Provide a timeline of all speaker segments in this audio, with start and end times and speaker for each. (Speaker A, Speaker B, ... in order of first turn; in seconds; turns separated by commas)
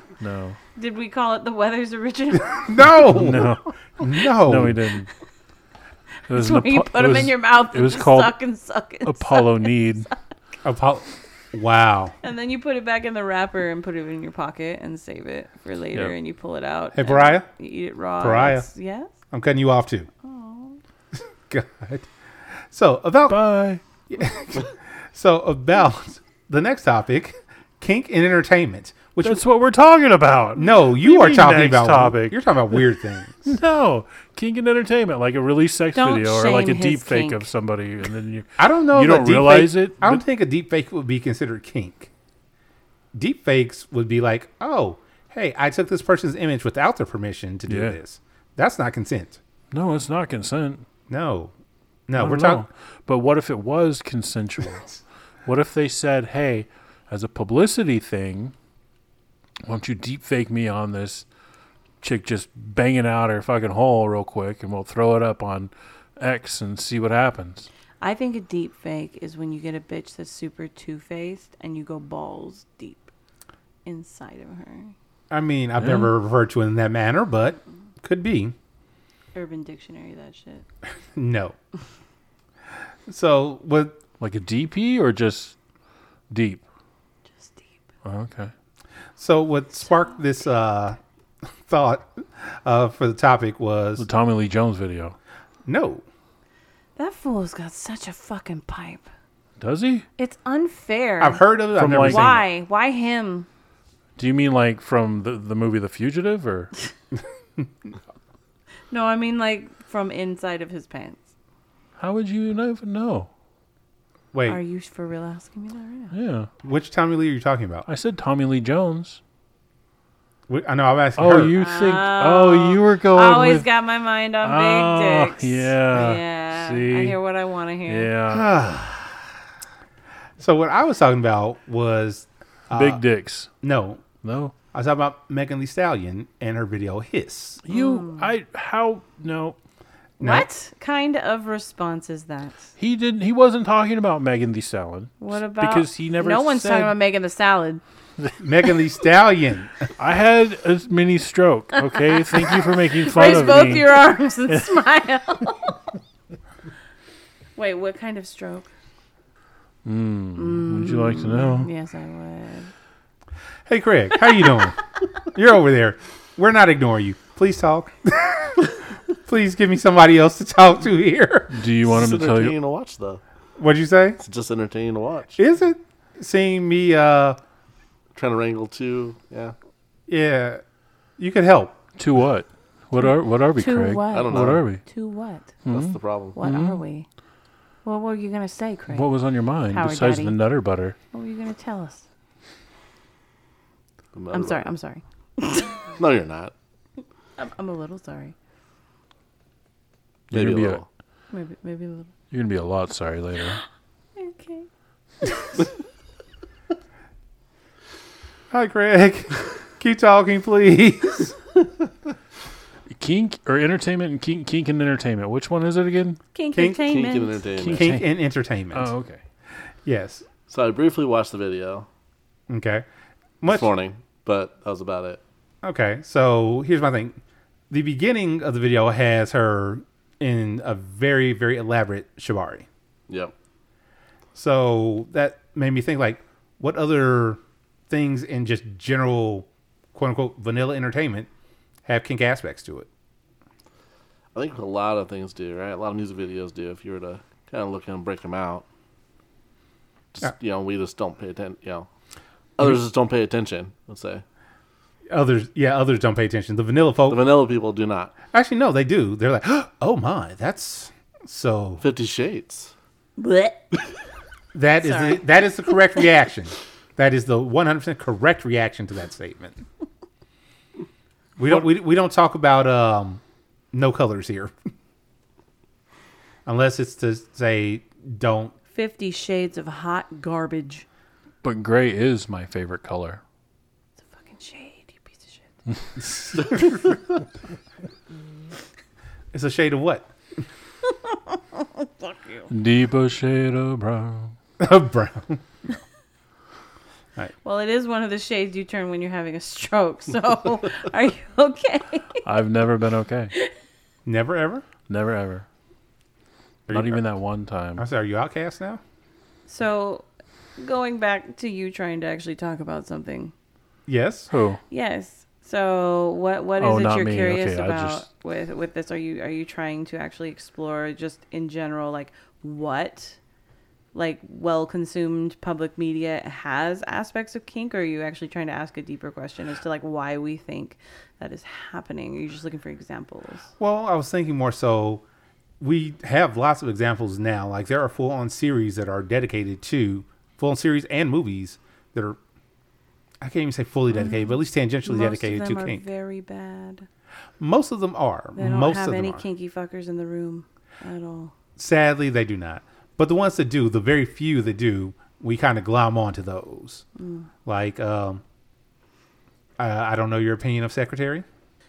Speaker A: 0.2-0.6, Speaker B: 0.8-2.8, Speaker C: 2.5-4.8, Speaker A: 3.0-5.1, Speaker A: 6.3-8.3, Speaker B: 6.3-10.1, Speaker A: 9.1-10.1, Speaker C: 10.6-12.1, Speaker B: 12.2-19.1, Speaker C: 16.9-17.5, Speaker C: 18.2-18.7, Speaker C: 19.3-20.1, Speaker B: 20.2-20.8, Speaker C: 21.5-22.1, Speaker C: 22.7-23.4, Speaker A: 23.3-23.8, Speaker C: 24.1-29.4, Speaker A: 29.2-32.9, Speaker C: 30.6-33.6, Speaker A: 33.4-40.2, Speaker B: 36.0-37.4, Speaker C: 38.6-42.1, Speaker C: 43.1-49.4, Speaker A: 47.7-48.0, Speaker A: 49.7-50.9, Speaker C: 51.1-51.5, Speaker C: 52.1-52.7, Speaker A: 52.2-58.5, Speaker A: 59.7-61.3, Speaker A: 62.0-67.7, Speaker B: 68.0-73.1, Speaker B: 73.8-74.9, Speaker C: 75.3-78.5, Speaker A: 75.8-76.1, Speaker B: 79.3-80.6, Speaker C: 81.1-81.5, Speaker C: 83.1-84.0, Speaker A: 84.2-85.5, Speaker A: 86.3-86.6, Speaker B: 87.3-87.8, Speaker A: 88.0-88.5, Speaker C: 89.2-91.0, Speaker C: 91.7-94.1, Speaker A: 94.0-95.2, Speaker C: 95.6-96.0, Speaker B: 97.0-99.0, Speaker A: 99.6-100.0, Speaker B: 100.2-103.5, Speaker C: 101.2-102.5, Speaker A: 101.8-102.3, Speaker A: 104.2-106.7, Speaker B: 108.9-111.2, Speaker A: 112.0-113.3, Speaker C: 114.3-114.6, Speaker B: 114.5-116.1, Speaker A: 116.1-116.5, Speaker C: 116.6-117.9, Speaker A: 117.9-119.2, Speaker C: 120.5-121.5, Speaker A: 121.2-123.7, Speaker B: 121.5-128.1, Speaker A: 124.4-127.2, Speaker A: 127.9-128.6, Speaker C: 128.3-129.3, Speaker C: 130.4-133.0, Speaker A: 132.7-133.5, Speaker C: 133.6-134.0, Speaker A: 134.2-134.5, Speaker C: 134.7-137.6, Speaker A: 137.6-139.6, Speaker B: 137.7-138.3, Speaker C: 140.2-140.5, Speaker B: 140.2-142.7, Speaker A: 142.8-146.9, Speaker B: 145.2-147.8, Speaker C: 148.4-149.9, Speaker A: 150.0-154.6, Speaker B: 151.8-155.8, Speaker B: 157.6-158.7, Speaker A: 159.8-161.7, Speaker B: 160.4-162.7, Speaker C: 163.7-171.6, Speaker A: 171.5-172.6, Speaker D: 171.8-173.2, Speaker C: 173.6-174.2, Speaker D: 174.2-175.4, Speaker C: 175.4-177.4, Speaker D: 178.1-179.6, Speaker C: 180.1-180.6, Speaker C: 181.2-181.8, Speaker A: 182.0-184.8, Speaker B: 183.0-185.5, Speaker D: 184.1-184.6, Speaker A: 185.6-186.8, Speaker D: 185.7-186.4, Speaker B: 186.3-187.1, Speaker B: 187.8-189.1, Speaker A: 188.9-191.0, Speaker B: 189.7-190.4, Speaker B: 191.1-192.1, Speaker D: 194.1-194.7, Speaker B: 194.3-195.8, Speaker D: 196.0-196.5, Speaker B: 197.4-198.3, Speaker A: 200.3-200.8, Speaker D: 200.3-200.9, Speaker B: 201.3-202.1, Speaker A: 202.3-203.6, Speaker B: 204.2-204.7, Speaker C: 208.5-211.4, Speaker A: 212.9-216.2, Speaker B: 216.3-217.5, Speaker C: 216.5-216.9, Speaker D: 216.7-217.9, Speaker A: 217.6-218.1, Speaker C: 217.7-218.9, Speaker A: 218.7-219.2, Speaker C: 219.8-220.3, Speaker D: 220.5-221.9, Speaker C: 222.5-222.9, Speaker C: 223.4-223.7, Speaker D: 223.4-225.2, Speaker C: 225.6-227.2, Speaker C: 227.7-232.7, Speaker C: 234.3-241.3, Speaker C: 241.9-242.9, Speaker D: 244.3-248.7, Speaker D: 250.1-251.9, Speaker D: 252.6-254.2, Speaker C: 255.1-257.3, Speaker D: 257.1-258.1, Speaker C: 258.3-261.8, Speaker D: 261.8-262.7, Speaker B: 263.2-263.8, Speaker C: 264.5-269.6, Speaker B: 264.8-266.0, Speaker C: 271.4-273.2, Speaker C: 273.7-274.5, Speaker C: 276.4-278.6, Speaker B: 278.7-280.8, Speaker A: 281.4-283.2, Speaker B: 284.1-285.4, Speaker C: 286.1-287.0, Speaker C: 289.3-290.1, Speaker B: 291.1-292.5, Speaker A: 292.5-294.3, Speaker C: 294.6-295.4, Speaker B: 297.4-302.2, Speaker A: 302.2-303.3, Speaker C: 304.1-304.6, Speaker A: 304.9-305.4, Speaker C: 306.7-307.0, Speaker A: 306.7-307.8, Speaker C: 307.8-308.8, Speaker B: 309.5-310.1, Speaker B: 310.6-313.3, Speaker C: 313.9-314.3, Speaker A: 314.3-314.6, Speaker B: 314.7-323.2, Speaker A: 316.6-318.1, Speaker B: 323.9-333.5, Speaker C: 333.6-335.0, Speaker C: 335.6-342.2, Speaker C: 343.2-345.8, Speaker B: 343.9-346.9, Speaker C: 347.4-349.2, Speaker B: 348.4-351.3, Speaker C: 351.6-356.8, Speaker B: 357.0-357.3, Speaker C: 357.4-358.2, Speaker C: 359.6-361.2